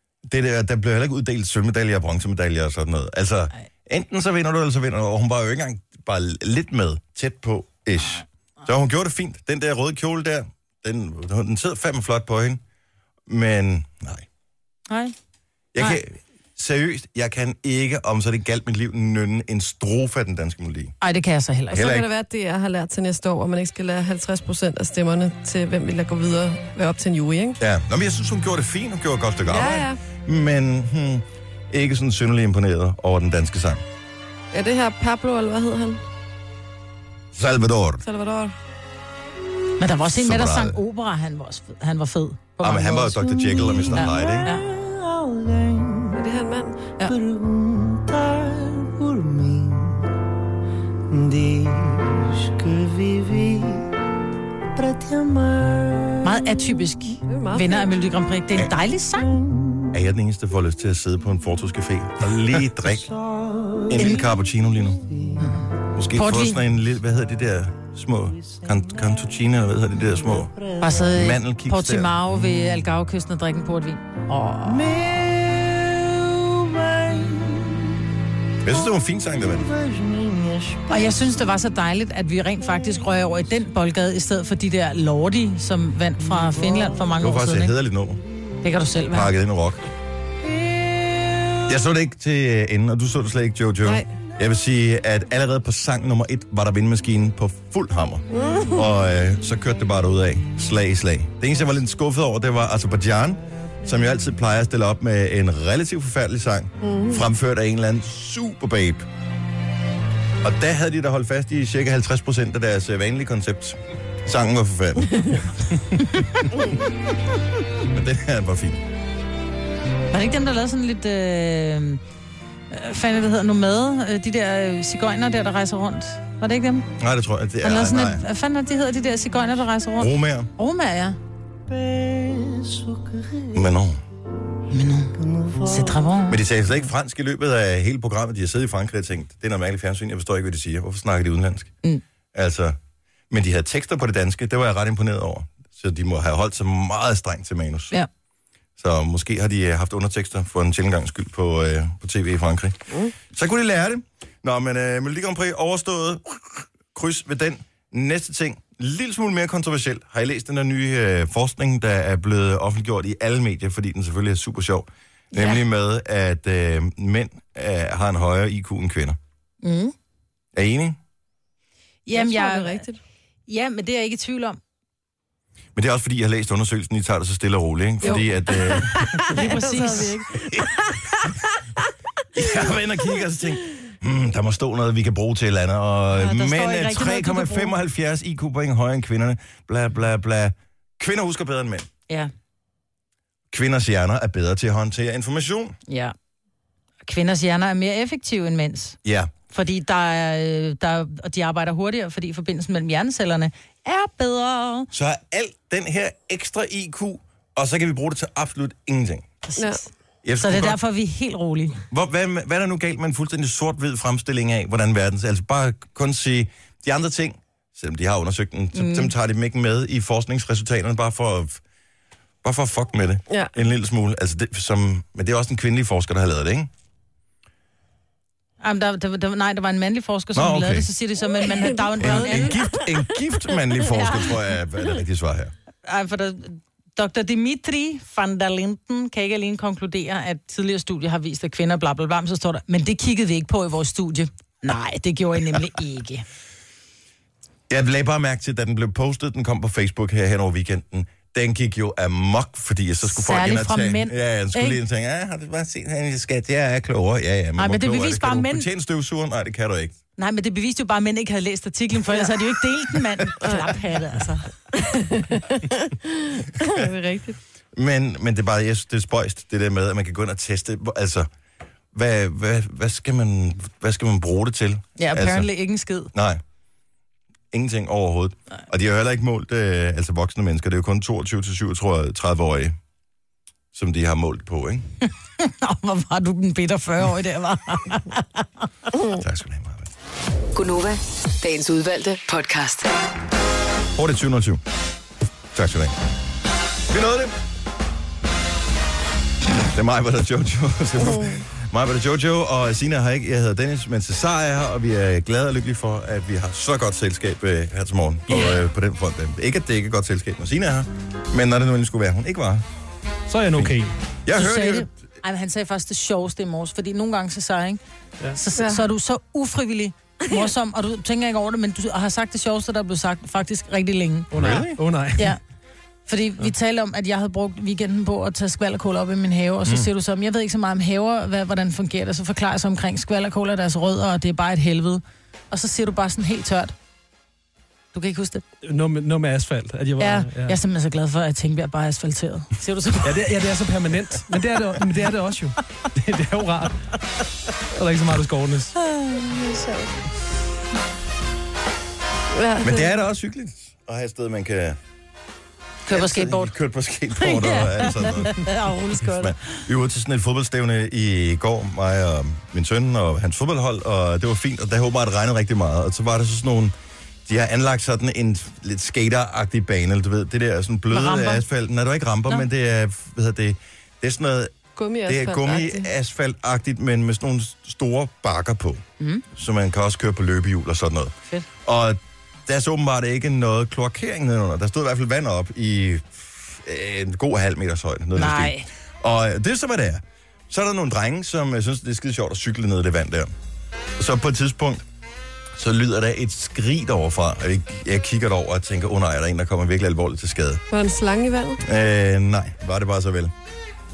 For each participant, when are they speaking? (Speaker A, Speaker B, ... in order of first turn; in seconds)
Speaker A: 0.3-12.6, 13.3-14.3, 15.7-20.9, 21.7-22.1, 27.6-33.8, 37.3-38.0, 40.0-40.8, 42.6-44.5, 59.9-63.2, 63.8-65.0, 65.9-72.2, 78.6-79.7, 87.2-88.2, 89.1-89.8, 91.7-109.1, 110.4-115.4, 117.8-118.8, 127.0-128.2, 130.0-130.5, 133.5-134.0, 136.3-141.7, 142.3-142.8, 143.3-148.0, 148.8-169.2, 170.5-171.0, 175.8-179.1, 180.4-180.7, 182.3-191.9, 193.5-195.8, 199.0-199.3, 204.9-209.3, 210.2-210.8, 211.9-221.6, 222.4-226.7, 230.3-230.9, 232.0-235.5, 247.7-260.0, 267.8-271.3, 271.9-275.5, 276.1-276.4, 277.5-282.8, 283.7-284.9, 289.1-289.9, 294.0-294.6, 295.5-296.0, 296.9-297.4, 299.6-312.6, 313.6-314.9, 324.3-324.8, 352.6-354.8, 355.9-366.7, 367.3-374.5, 375.1-393.3, 394.0-394.9, 395.6-400.6, 401.6-403.3
Speaker B: 14.9-15.1, 21.0-21.9, 39.8-44.7, 56.2-59.3, 65.4-66.6, 70.8-75.3, 80.9-87.7, 88.6-89.3, 116.0-116.5, 120.1-122.0, 122.7-126.9, 127.6-131.2, 134.7-136.4, 165.3-165.6, 169.6-169.9, 172.1-172.8, 173.5-174.6, 179.3-180.3, 186.1-187.7, 195.9-196.1, 197.1-199.0, 199.5-204.9, 209.4-209.8, 210.4-211.8, 218.8-219.1, 228.6-232.8, 235.8-246.2, 253.1-254.8, 257.6-258.7, 260.2-264.5, 275.0-276.1, 285.4-288.6, 314.3-317.8, 318.4-324.3, 326.1-336.7, 337.9-338.4, 340.0-343.2, 348.8-350.0, 355.9-356.5, 357.2-359.6, 370.9-371.4, 388.1-388.7
Speaker C: 21.7-27.6, 29.5-30.0, 34.5-36.0, 38.0-38.5, 46.1-46.9, 57.3-57.9, 98.4-98.8, 106.8-107.2, 172.1-173.0, 178.0-181.4, 209.6-209.8, 231.4-232.6, 263.4-263.7, 264.7-267.4, 301.1-301.4, 318.6-318.9, 352.4-352.9, 374.8-375.9, 400.7-401.6
Speaker D: 290.5-292.9
Speaker E: 313.3-313.9, 324.3-325.4, 338.6-340.6, 343.0-346.8, 347.8-348.8